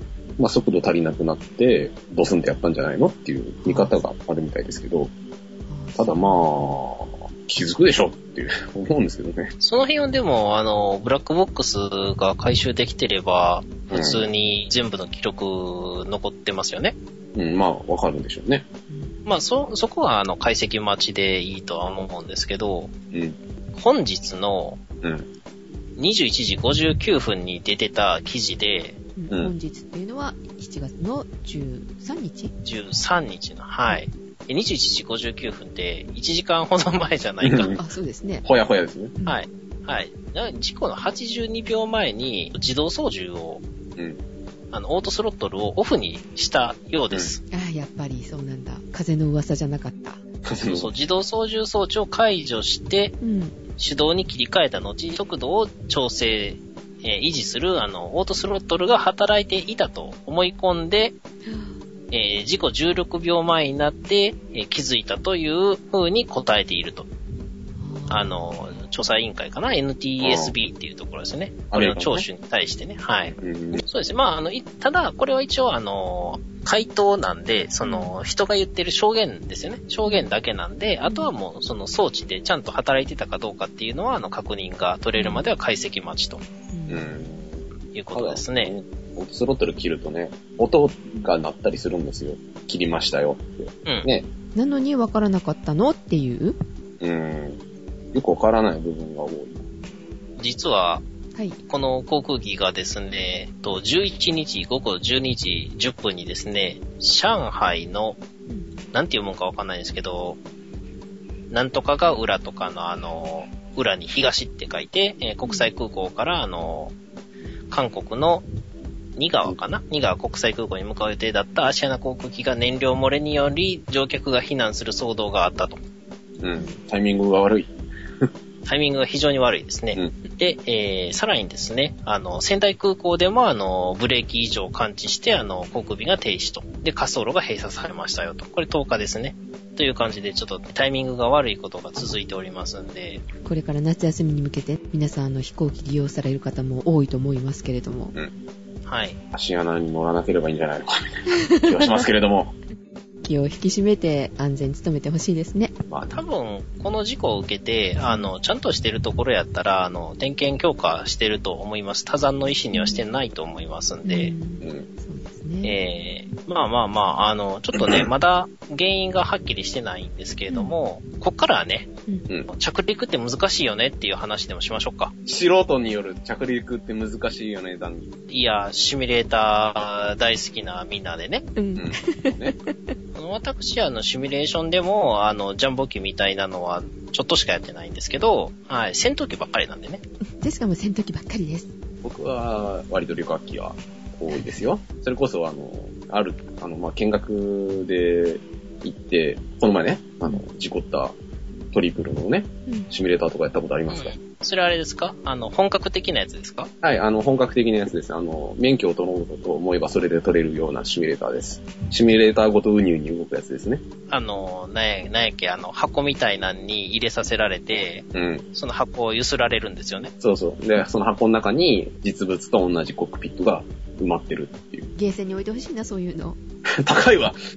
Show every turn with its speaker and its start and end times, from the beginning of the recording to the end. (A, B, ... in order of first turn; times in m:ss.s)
0:00.4-0:05.1 A
0:03.6-0:04.0 B
0:05.7-0:06.8 B
0:06.0-0:09.5 A
0:09.6-0:17.0 C
0:13.9-0:14.2 A
0:17.3-0:18.6 A
0:18.9-0:19.1 B
0:19.2-0:22.9 C
0:23.1-0:23.4 A
0:23.7-0:24.8 C
0:25.0-0:25.3 A
0:26.0-0:29.0 C
0:29.2-0:32.5 B
0:29.3-0:29.5 A
0:32.6-0:37.8 C
0:37.4-0:37.8 A
0:37.8-0:38.4 B
0:38.4-0:39.1 A
0:39.3-0:43.6 C
0:44.7-0:47.4 C
0:47.5-0:50.2 B
0:50.4-0:50.9 A
0:50.6-0:53.2 C
0:53.2-0:53.5 B
0:53.8-1:01.2 C
1:01.4-1:01.7 B
1:02.1-1:07.1 C
1:07.8-1:08.8 B
1:08.1-1:26.4 C
1:10.2-1:10.5 A
1:11.7-1:12.2 A
1:13.4-1:13.8 A
1:17.8-1:18.1 B
1:20.0-1:20.3 B
1:21.0-1:21.3 B
1:25.2-1:25.5 B
1:26.7-1:27.4 B
1:26.9-1:34.3 A
1:27.9-1:28.8 C
1:34.5-1:36.6 B
1:37.0-1:37.6 A
1:38.1-1:39.6 A
1:40.4-1:41.0 C
1:41.7-1:48.2 C
1:48.9-1:50.4 C
1:51.5-1:56.9 C
1:57.7-1:58.4 C
1:59.2-2:05.8 C
2:06.4-2:08.3 A
2:08.6-2:23.2 C
2:23.4-2:28.2 B
2:28.8-2:29.2 C
2:29.3-2:32.5 A
2:31.4-2:32.0 B
2:33.2-2:35.7 B
2:35.9-2:36.2 A
2:36.1-2:44.3 C
2:38.0-2:38.3 B
2:42.7-2:43.0 B
2:44.0-2:45.8 B
2:44.6-2:44.9 A
2:45.6-2:51.9 C
2:47.7-2:48.1 A
2:52.5-2:55.1 C
2:55.2-2:58.2 A
2:58.3-3:01.5 C
3:01.6-3:02.7 B
3:01.7-3:02.6 A
3:03.1-3:10.0 C
3:10.4-3:11.7 B
3:12.0-3:21.2 A
3:21.7-3:24.1 A
3:23.9-3:26.7 C
3:26.8-3:33.8 A
3:34.1-3:40.1 C
3:38.1-3:38.4 A
3:40.2-3:44.9 A
3:45.0-3:46.4 B
3:46.7-3:47.4 A